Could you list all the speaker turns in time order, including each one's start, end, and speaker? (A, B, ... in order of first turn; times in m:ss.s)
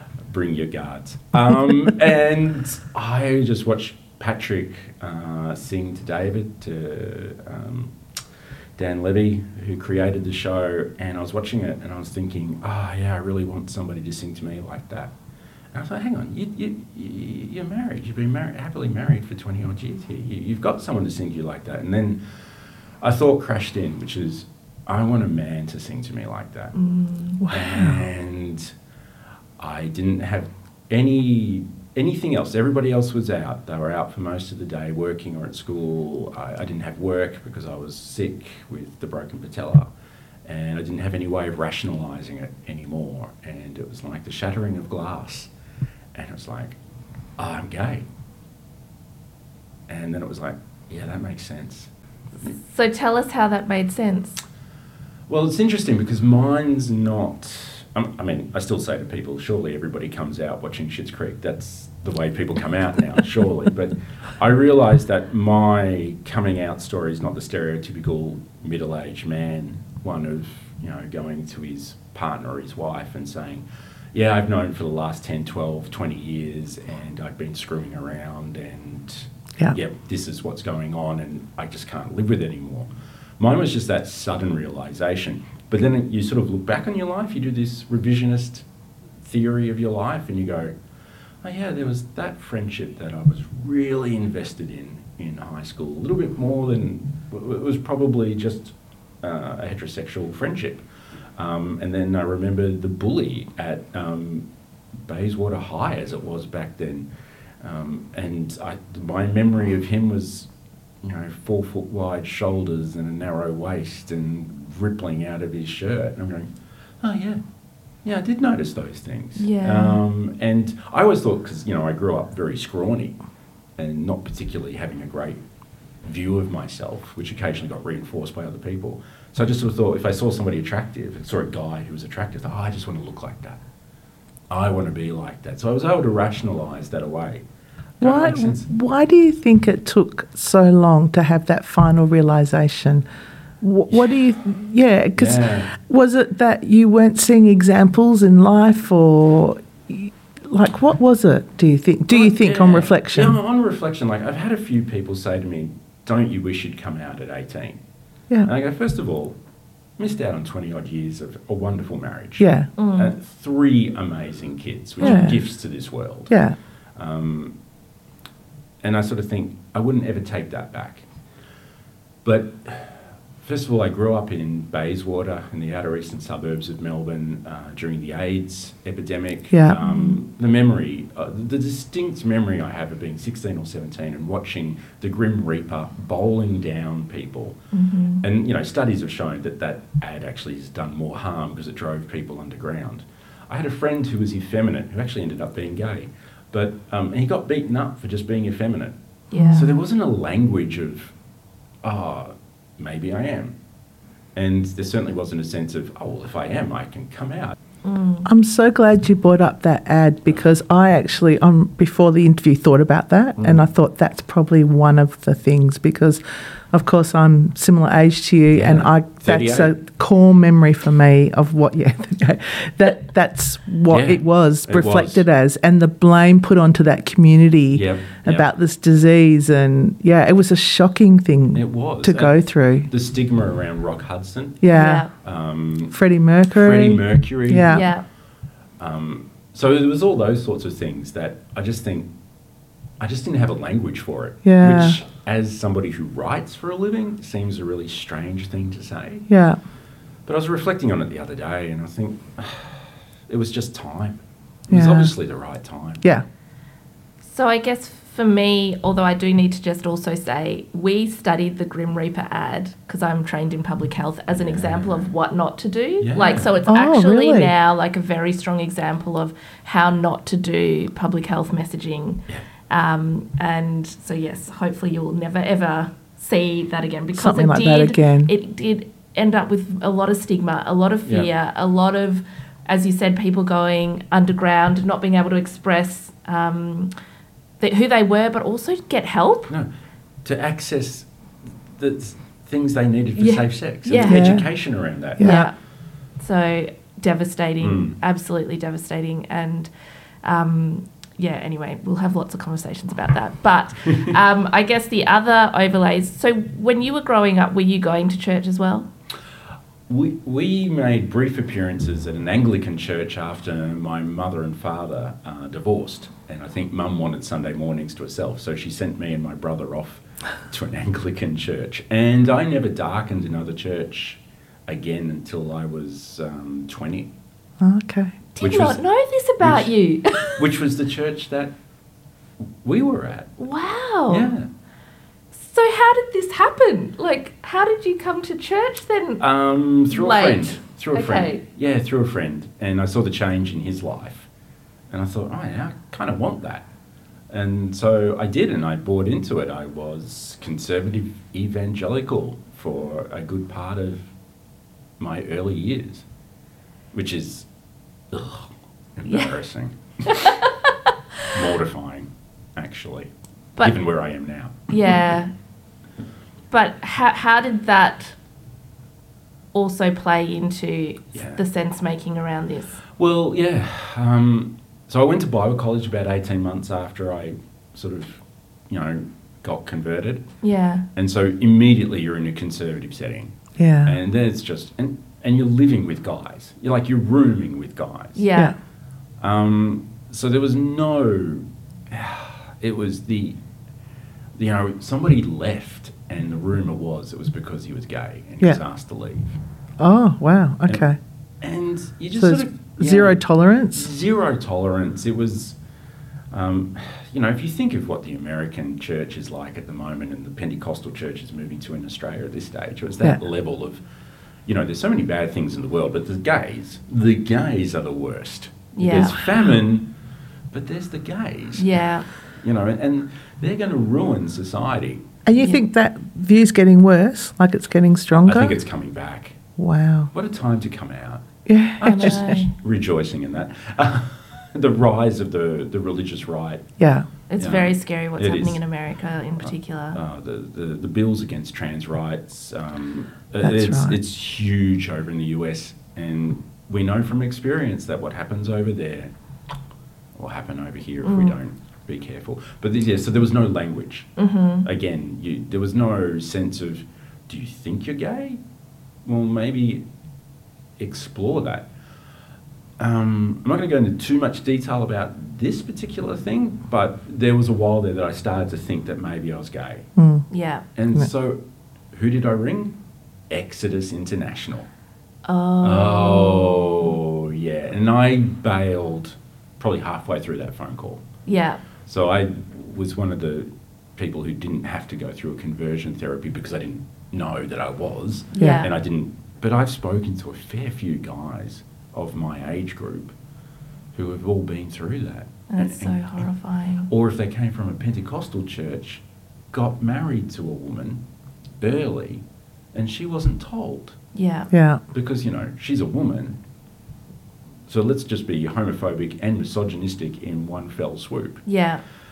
0:00.3-0:07.9 A
0:08.8-0:15.1 A
0:15.7-0:22.2 A
0:23.0-0:26.7 A
0:26.8-0:27.4 B
0:27.4-0:28.1 C
0:27.5-0:28.7 A
0:29.6-0:39.9 A
0:40.4-0:45.5 A
0:46.1-0:46.8 A
0:47.4-0:48.0 A
0:49.9-0:51.9 A
0:52.6-0:54.4 B
0:55.3-1:28.6 A
1:29.2-1:30.7 A
1:31.4-1:40.8 A
1:41.4-1:44.5 A
1:45.0-1:47.1 A
1:47.6-1:50.5 A
1:51.0-1:56.5 A
1:57.0-1:57.4 A
1:58.0-2:03.2 A
1:59.4-2:00.0 B
2:03.8-2:05.4 A
2:06.0-2:13.6 A
2:14.5-2:17.4 A
2:18.0-2:18.7 A
2:18.0-2:23.0 C
2:23.6-2:33.4 C
2:23.9-2:24.3 A
2:25.2-2:25.7 A
2:32.1-2:37.8 A
2:38.4-2:39.4 A
2:40.0-2:46.4 A
2:42.4-2:42.7 C
2:42.8-2:43.1 B
2:45.0-2:45.3 B
2:45.0-2:45.4 C
2:46.3-2:46.6 C
2:47.0-2:47.6 A
2:48.8-2:51.0 A
2:52.2-3:07.6 A
2:59.5-3:00.2 C
3:07.7-3:08.2 B
3:08.2-3:18.9 A
3:19.3-3:19.7 B
3:19.4-3:19.6 C
3:19.5-3:21.1 A
3:21.8-3:23.6 A
3:24.4-3:27.6 A
3:27.8-3:28.3 B
3:28.2-3:36.2 C
3:33.4-3:33.7 A
3:36.7-3:52.9 C
3:38.6-3:39.7 A
3:43.9-3:45.2 A
3:47.7-3:48.5 A
3:51.6-3:56.0 A
3:54.6-3:55.1 C
3:54.7-3:55.1 B
3:55.9-3:57.9 C
3:56.5-3:57.9 A
3:57.7-3:58.0 B
3:58.8-4:02.1 A
4:03.0-4:09.3 A
4:04.4-4:05.0 C
4:09.3-4:09.6 C
4:10.3-4:16.0 A
4:14.7-4:15.1 C
4:17.2-4:46.9 B
4:24.4-4:25.1 A
4:26.0-4:26.6 A
4:26.7-4:27.5 C
4:37.2-4:38.3 C
4:47.6-4:49.5 B
4:50.2-4:51.1 A
4:51.8-4:55.4 A
4:53.2-4:54.3 B
4:54.0-4:54.5 C
4:55.2-4:55.5 C
4:55.2-4:55.5 B
4:56.2-4:59.7 B
4:57.6-4:58.0 A
5:00.2-5:08.9 B
5:09.9-5:27.1 A
5:27.6-5:28.2 C
5:28.4-5:30.4 B
5:28.4-5:28.8 A
5:29.4-5:29.7 A
5:30.4-5:31.5 A
5:32.6-5:33.3 A
5:33.4-5:34.3 B
5:34.1-5:34.5 A
5:35.3-5:39.2 B
5:39.2-5:44.3 A
5:39.9-5:41.4 B
5:44.9-5:46.7 A
5:47.3-5:54.1 A
5:55.0-5:56.0 A
5:56.9-5:57.5 A
5:58.1-6:00.3 A
5:59.1-5:59.3 B
6:00.1-6:01.3 B
6:01.3-6:04.7 A
6:04.7-6:05.3 B
6:06.5-6:08.2 B
6:09.5-6:12.8 B
6:11.1-6:11.4 A
6:13.0-6:20.3 A
6:20.4-6:20.8 B
6:21.0-6:28.3 A
6:23.6-6:24.0 C
6:28.2-6:28.6 B
6:29.2-6:33.4 A
6:34.4-6:39.3 A
6:39.8-6:41.0 C
6:41.4-6:43.2 A
6:42.2-6:43.9 C
6:43.7-6:45.6 A
6:46.3-6:53.8 A
6:54.5-6:59.9 A
6:58.8-6:59.3 B
7:00.5-7:05.0 A
7:01.6-7:02.1 B
7:05.3-7:08.6 C
7:05.4-7:05.6 B
7:08.3-7:09.4 A
7:09.6-7:10.1 C
7:10.1-7:11.2 A
7:11.5-7:12.4 C
7:11.8-7:16.7 A
7:11.8-7:12.5 B
7:16.8-7:17.1 C
7:17.3-7:20.0 B
7:17.4-7:18.6 A
7:19.4-7:29.1 A
7:23.4-7:24.0 C
7:30.2-7:34.1 A
7:31.0-7:31.4 B
7:34.2-7:34.7 B
7:34.6-7:38.4 A
7:39.0-7:39.8 A
7:40.8-7:41.7 A
7:42.8-7:49.9 A
7:50.0-7:50.2 C
7:50.3-7:50.7 B
7:50.8-7:51.4 A
7:51.9-7:52.8 A
7:53.3-7:54.7 A
7:55.3-7:57.0 B
7:55.6-8:01.0 A
8:01.3-8:01.6 B
8:01.9-8:13.1 A
8:08.3-8:08.7 B
8:08.4-8:08.6 C
8:13.9-8:16.3 A
8:15.5-8:16.9 B
8:16.9-8:21.0 A
8:21.6-8:22.2 A
8:22.7-8:24.0 A
8:24.2-8:24.5 B
8:24.5-8:24.8 C
8:24.9-8:26.4 A
8:27.7-8:31.4 A
8:31.5-8:31.8 B